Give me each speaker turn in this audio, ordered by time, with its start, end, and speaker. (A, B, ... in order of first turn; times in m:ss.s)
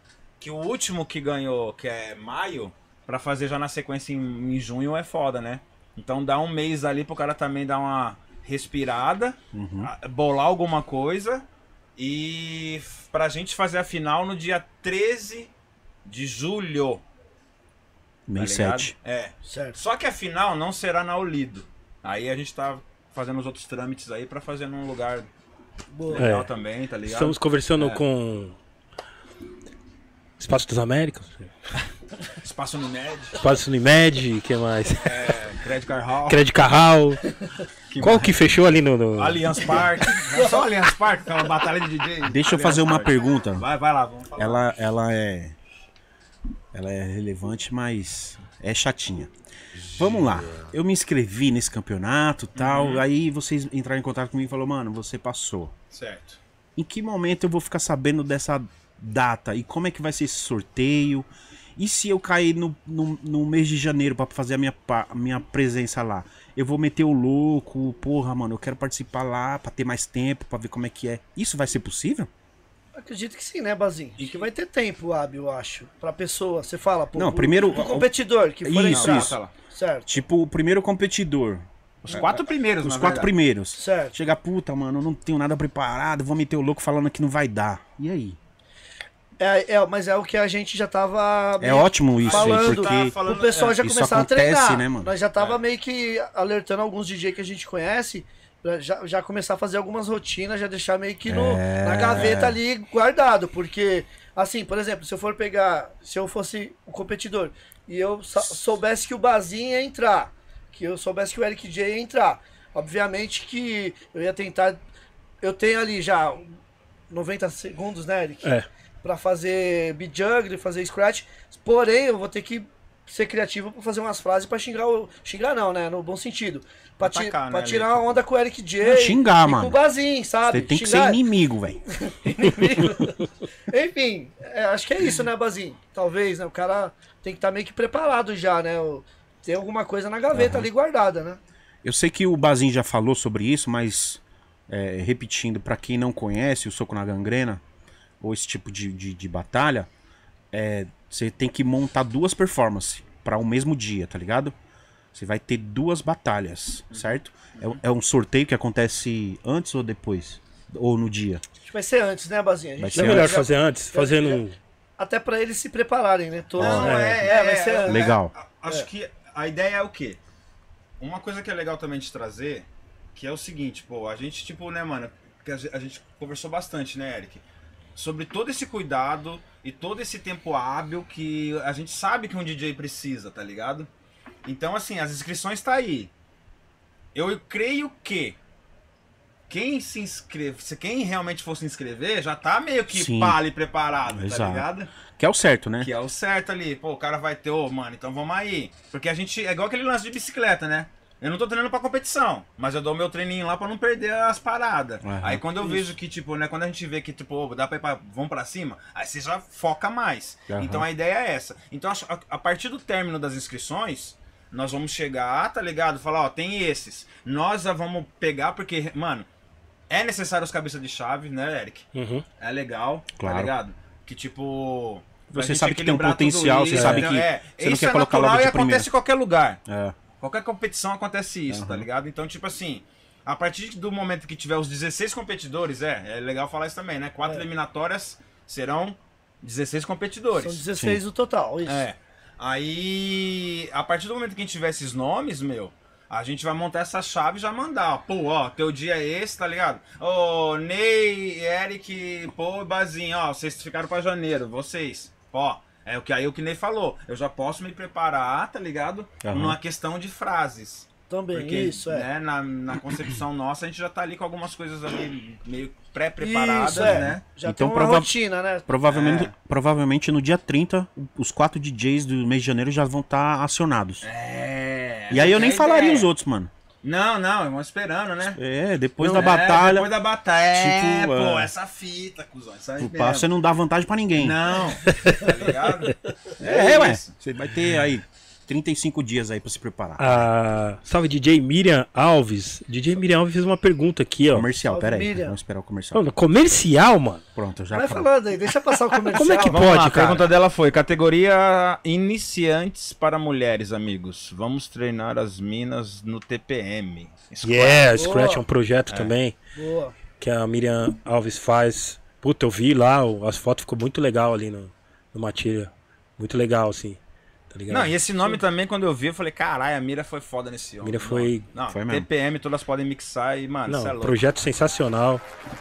0:00.4-0:11.4 A
0:09.5-0:09.9 B
0:12.0-0:15.5 A
0:16.0-0:17.0 A
0:18.3-0:18.9 B
0:18.4-0:25.3 A
0:19.4-0:19.8 C
0:25.9-0:26.3 C
0:26.1-0:28.0 A
0:26.2-0:26.5 D
0:27.0-0:28.6 D
0:30.4-0:31.5 D
0:32.4-0:33.4 A
0:33.4-0:35.4 D
0:35.0-0:36.5 A
0:36.3-0:37.2 D
0:37.9-0:38.4 A
0:38.0-0:39.9 D
0:39.2-0:44.7 A
0:42.2-0:43.7 B
0:44.4-0:45.6 B
0:46.7-0:49.3 B
0:49.8-0:50.6 A
0:50.0-0:55.7 B
0:52.6-0:53.0 A
0:55.9-0:56.4 A
0:56.8-1:12.3 B
1:13.0-1:20.2 C
1:14.2-1:14.5 A
1:17.2-1:18.1 B
1:18.6-1:19.4 B
1:18.9-1:19.5 A
1:20.1-1:28.4 B
1:22.0-1:23.3 A
1:23.8-1:24.2 C
1:29.4-1:54.8 C
1:31.6-1:33.2 B
1:32.2-1:33.8 A
1:33.8-1:35.1 B
1:41.3-1:42.6 B
1:55.4-1:56.6 C
1:57.1-1:58.5 C
1:59.0-2:11.2 C
2:07.0-2:08.2 A
2:08.8-2:09.8 B
2:10.5-2:11.8 B
2:12.0-2:21.4 C
2:20.3-2:20.7 B
2:21.8-2:27.6 B
2:28.2-2:29.9 B
2:30.5-2:34.5 B
2:35.1-2:41.4 B
2:36.9-2:37.8 A
2:41.6-2:44.4 C
2:42.8-2:43.4 B
2:42.9-2:44.6 D
2:45.0-2:48.1 C
2:46.6-2:46.9 B
2:46.6-2:50.2 A
2:46.8-2:47.3 D
2:47.8-2:48.3 B
2:51.0-2:57.4 A
2:58.0-3:03.9 A
3:04.4-3:06.1 A
3:07.2-3:08.4 A
3:09.5-3:14.9 A
3:12.9-3:13.4 B
3:14.1-3:15.9 B
3:15.8-3:39.3 A
3:25.0-3:25.7 B
3:30.5-3:30.9 B
3:39.9-3:41.9 A
3:42.0-3:42.2 D
3:42.4-3:49.6 A
3:43.2-3:43.5 B
3:45.3-3:48.9 B
3:46.7-3:47.1 D
3:49.7-3:50.0 B
3:50.2-4:00.6 A
3:51.5-3:51.9 B
4:00.4-4:01.9 C
4:00.7-4:01.0 B
4:01.6-4:27.2 A
4:19.2-4:19.6 B
4:21.1-4:22.1 C
4:26.2-4:28.7 C
4:26.7-4:28.1 B
4:28.7-4:34.0 B
4:28.9-4:29.3 A
4:34.0-4:36.1 A
4:35.1-4:36.5 B
4:36.8-4:38.4 A
4:38.3-4:39.9 B
4:39.0-4:43.3 A
4:40.5-4:41.5 B
4:42.8-4:44.5 B
4:44.2-4:47.2 A
4:46.4-4:50.3 B
4:50.0-4:54.5 D
4:54.3-4:56.0 B
4:54.6-4:55.4 C
4:56.0-4:57.2 D
4:57.4-4:58.1 B
4:57.7-4:59.6 C
4:59.1-5:00.3 D
4:59.4-5:08.0 A
5:07.4-5:09.3 D
5:08.0-5:08.4 C
5:09.5-5:10.0 C
5:10.2-5:17.0 D
5:17.5-5:18.0 D
5:17.7-5:24.2 A
5:20.8-5:21.4 D
5:21.7-5:22.1 B
5:23.7-5:25.2 D